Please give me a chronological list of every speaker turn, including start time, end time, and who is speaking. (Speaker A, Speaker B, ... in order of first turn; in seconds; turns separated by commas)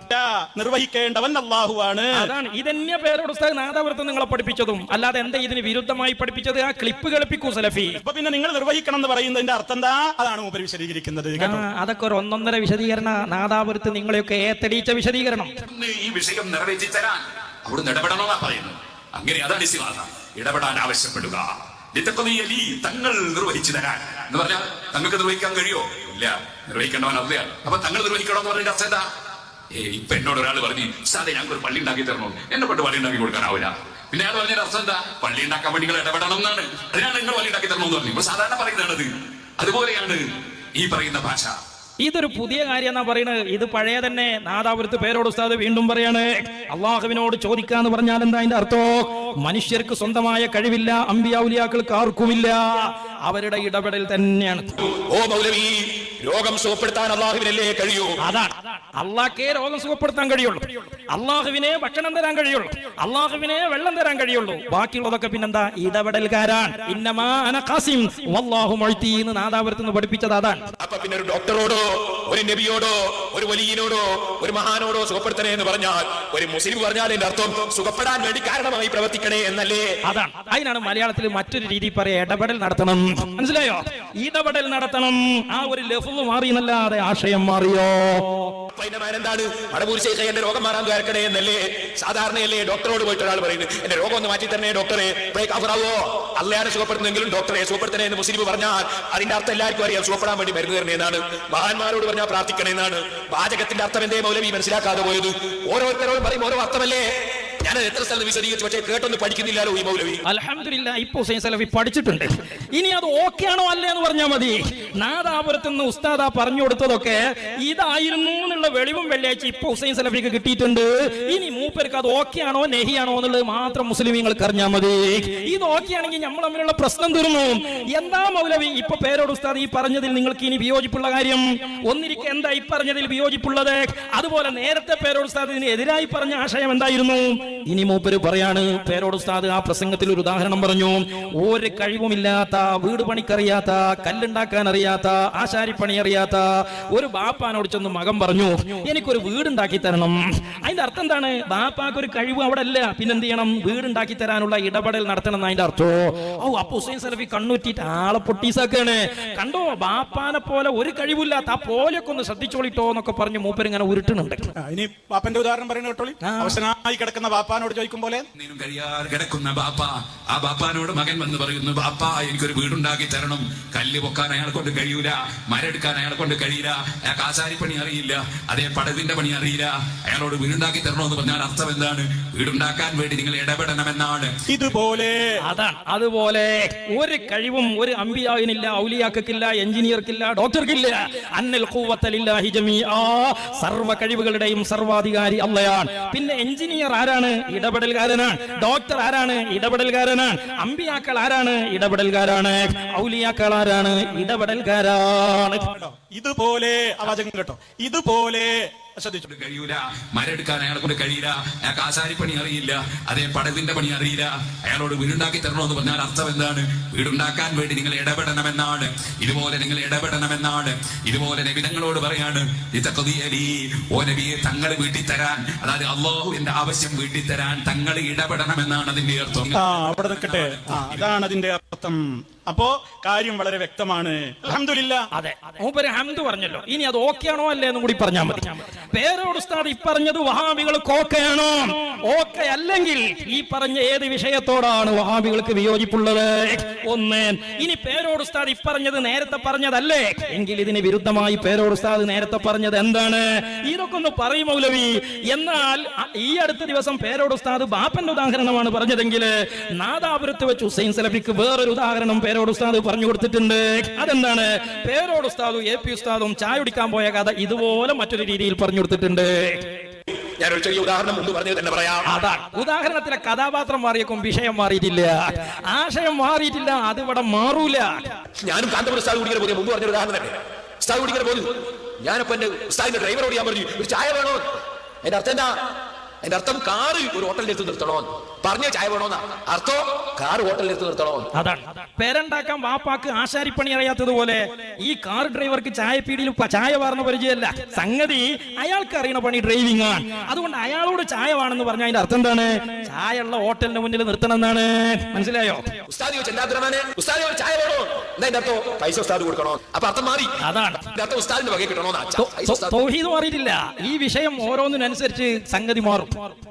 Speaker A: 0.1-2.3, Speaker B: 2.1-8.0, Speaker A: 8.0-11.6, Speaker B: 11.4-15.6, Speaker C: 15.6-29.1, Speaker C: 29.7-40.2, Speaker C: 40.8-41.5, Speaker B: 42.0-54.7, Speaker D: 54.8-58.2, Speaker B: 58.2-70.6, Speaker D: 70.8-79.9, Speaker B: 80.1-88.4, Speaker D: 88.8-107.1, Speaker D: 107.6-110.2, Speaker B: 110.3-164.4, Speaker A: 164.6-168.2, Speaker B: 166.2-166.6, Speaker C: 168.3-184.3, Speaker A: 184.5-185.3, Speaker B: 185.5-205.7, Speaker A: 205.7-209.3, Speaker C: 209.3-231.1, Speaker A: 229.5-235.1, Speaker B: 235.1-269.7, Speaker D: 270.4-272.1, Speaker B: 272.1-278.1, Speaker D: 278.4-281.5, Speaker D: 282.0-284.4, Speaker D: 285.0-285.5, Speaker D: 286.2-291.3, Speaker B: 291.3-305.6, Speaker D: 305.9-312.8, Speaker B: 310.4-310.9, Speaker B: 312.2-316.3